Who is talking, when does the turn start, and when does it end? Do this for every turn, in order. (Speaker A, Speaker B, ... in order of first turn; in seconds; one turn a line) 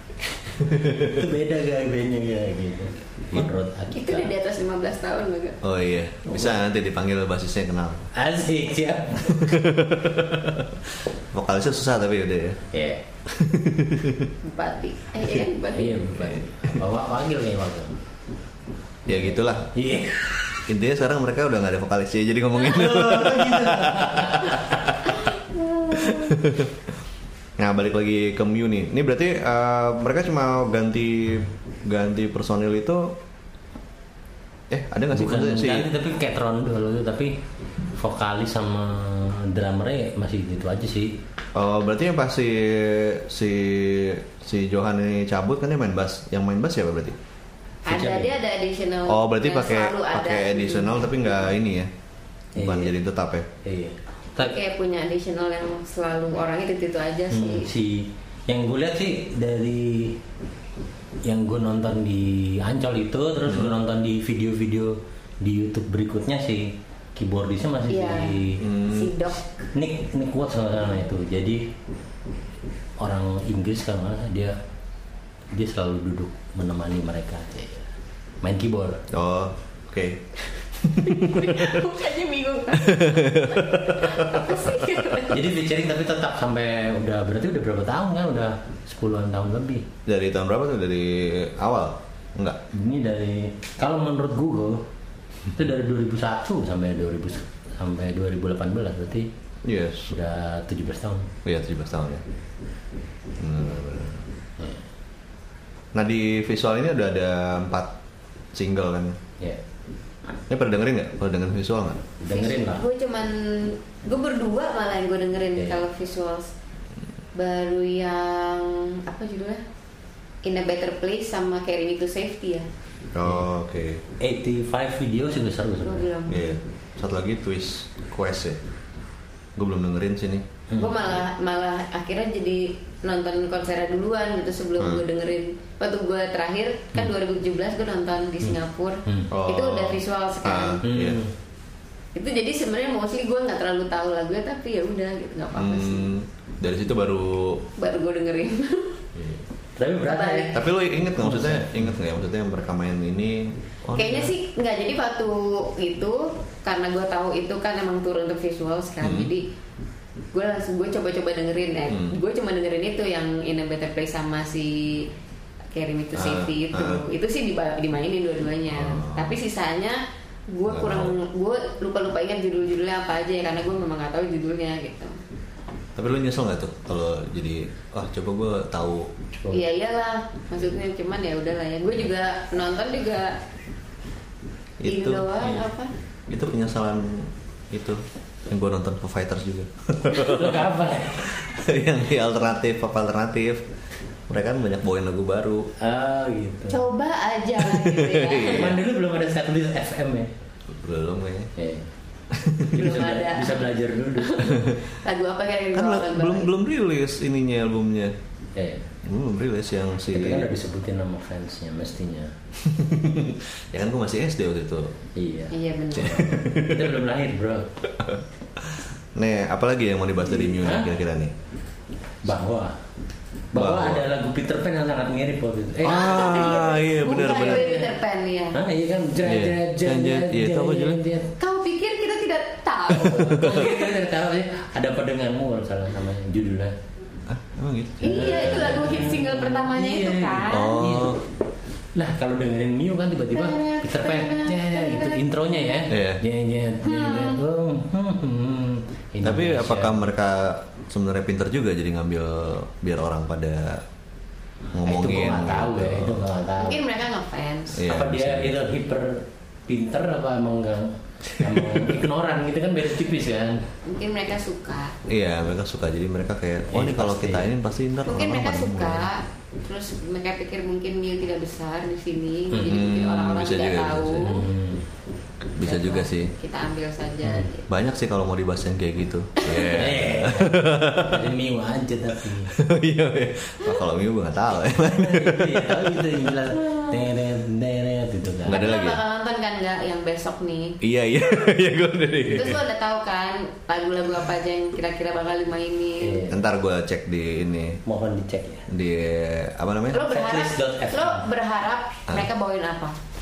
Speaker A: 0.6-1.2
Speaker B: 0.7-4.3
Speaker C: 3.9-5.6
Speaker A: 5.6-8.1
Speaker B: 6.3-6.6
Speaker B: 8.1-9.7
Speaker A: 9.3-12.6
Speaker B: 12.7-13.0
Speaker A: 13.3-14.3
Speaker C: 14.4-16.1
Speaker B: 15.7-18.0
Speaker A: 16.2-16.8
Speaker A: 19.1-19.7
Speaker B: 19.1-20.3
Speaker A: 20.7-25.2
Speaker B: 22.6-25.0
Speaker C: 25.2-26.4
Speaker A: 25.9-26.8
Speaker A: 27.6-33.2
Speaker A: 34.7-35.9
Speaker B: 35.1-37.4
Speaker B: 37.9-41.2
Speaker A: 41.5-47.2
Speaker C: 47.9-51.4
Speaker B: 47.9-48.3
Speaker A: 49.1-51.9
Speaker B: 52.6-53.0
Speaker A: 52.6-53.5
Speaker B: 53.6-54.6
Speaker C: 54.4-57.7
Speaker B: 57.3-60.2
Speaker B: 61.2-68.7
Speaker A: 63.5-63.8
Speaker C: 67.9-69.7
Speaker A: 68.6-69.2
Speaker B: 69.7-71.7
Speaker B: 73.0-74.6
Speaker B: 75.5-77.9
Speaker B: 78.4-79.0
Speaker A: 79.1-80.2
Speaker A: 80.8-81.8
Speaker C: 81.0-85.4
Speaker A: 82.8-84.9
Speaker B: 85.3-89.9
Speaker A: 90.1-92.6
Speaker B: 92.7-94.9
Speaker B: 95.5-99.3
Speaker A: 99.6-100.2
Speaker B: 100.1-101.3
Speaker A: 101.5-102.2
Speaker A: 103.4-104.2
Speaker A: 105.9-107.9
Speaker A: 108.5-109.2
Speaker A: 110.5-112.0
Speaker B: 112.2-112.8
Speaker C: 112.3-116.5
Speaker B: 115.6-115.8
Speaker C: 117.3-119.6
Speaker C: 120.4-122.7
Speaker A: 123.1-124.0
Speaker B: 124.2-126.1
Speaker C: 125.8-126.6
Speaker A: 126.3-128.6
Speaker A: 129.6-130.5
Speaker B: 130.7-131.0
Speaker C: 130.8-140.8
Speaker A: 139.3-141.2
Speaker B: 140.8-141.3
Speaker C: 142.1-146.1
Speaker A: 145.6-147.7
Speaker C: 147.8-149.0
Speaker B: 149.2-150.6
Speaker C: 150.1-150.7
Speaker A: 150.5-154.3
Speaker B: 151.2-151.9
Speaker C: 153.9-159.5
Speaker A: 159.0-159.3
Speaker C: 160.3-165.1
Speaker A: 161.9-162.2
Speaker C: 165.7-175.2
Speaker A: 166.2-167.0
Speaker A: 168.7-169.4
Speaker A: 170.7-171.2
Speaker A: 176.0-179.1
Speaker C: 179.5-183.4
Speaker A: 184.8-185.3
Speaker C: 184.9-185.9
Speaker A: 186.3-193.7
Speaker B: 190.1-191.4
Speaker A: 194.3-195.7
Speaker B: 195.8-196.9
Speaker C: 196.7-198.8
Speaker A: 197.6-198.8
Speaker B: 198.4-200.3
Speaker A: 200.7-201.5
Speaker B: 201.6-201.9
Speaker A: 202.3-202.8
Speaker B: 202.6-204.7
Speaker C: 202.7-206.5
Speaker A: 204.5-204.8
Speaker A: 205.7-208.2
Speaker B: 208.6-208.9
Speaker A: 209.0-210.5
Speaker B: 210.1-212.4
Speaker A: 212.6-215.0
Speaker B: 215.2-217.7
Speaker C: 215.5-216.2
Speaker A: 216.0-217.0
Speaker A: 218.0-221.3
Speaker B: 220.3-220.9
Speaker B: 222.2-222.8
Speaker B: 223.5-226.5
Speaker A: 223.6-224.1
Speaker A: 225.8-227.8
Speaker C: 225.8-228.6
Speaker B: 227.2-227.9
Speaker B: 228.5-231.3
Speaker A: 229.2-231.0
Speaker C: 231.4-234.0
Speaker B: 232.9-236.8
Speaker A: 237.3-239.2
Speaker C: 238.0-240.7
Speaker B: 238.0-241.2
Speaker A: 240.5-241.2
Speaker B: 241.9-250.1
Speaker C: 243.3-245.5
Speaker A: 245.9-246.2
Speaker C: 246.8-247.4
Speaker A: 249.2-253.8
Speaker A: 254.7-256.2
Speaker B: 254.8-256.8
Speaker C: 256.6-257.8
Speaker A: 257.7-258.6
Speaker B: 257.9-263.7
Speaker A: 261.4-261.9
Speaker C: 263.9-265.0
Speaker A: 265.1-269.1
Speaker B: 266.7-267.5
Speaker C: 268.1-274.5
Speaker A: 272.6-274.4
Speaker B: 274.2-274.9
Speaker A: 275.6-276.3
Speaker C: 275.6-277.7
Speaker A: 277.7-281.3
Speaker B: 279.6-282.6
Speaker A: 282.5-286.2
Speaker B: 284.8-288.6
Speaker A: 288.5-289.0
Speaker C: 288.5-290.8
Speaker A: 290.8-292.6
Speaker C: 292.3-296.3
Speaker B: 296.0-296.4
Speaker A: 296.3-297.8
Speaker B: 297.9-298.7
Speaker A: 298.7-300.0
Speaker C: 299.9-302.9
Speaker B: 300.0-301.2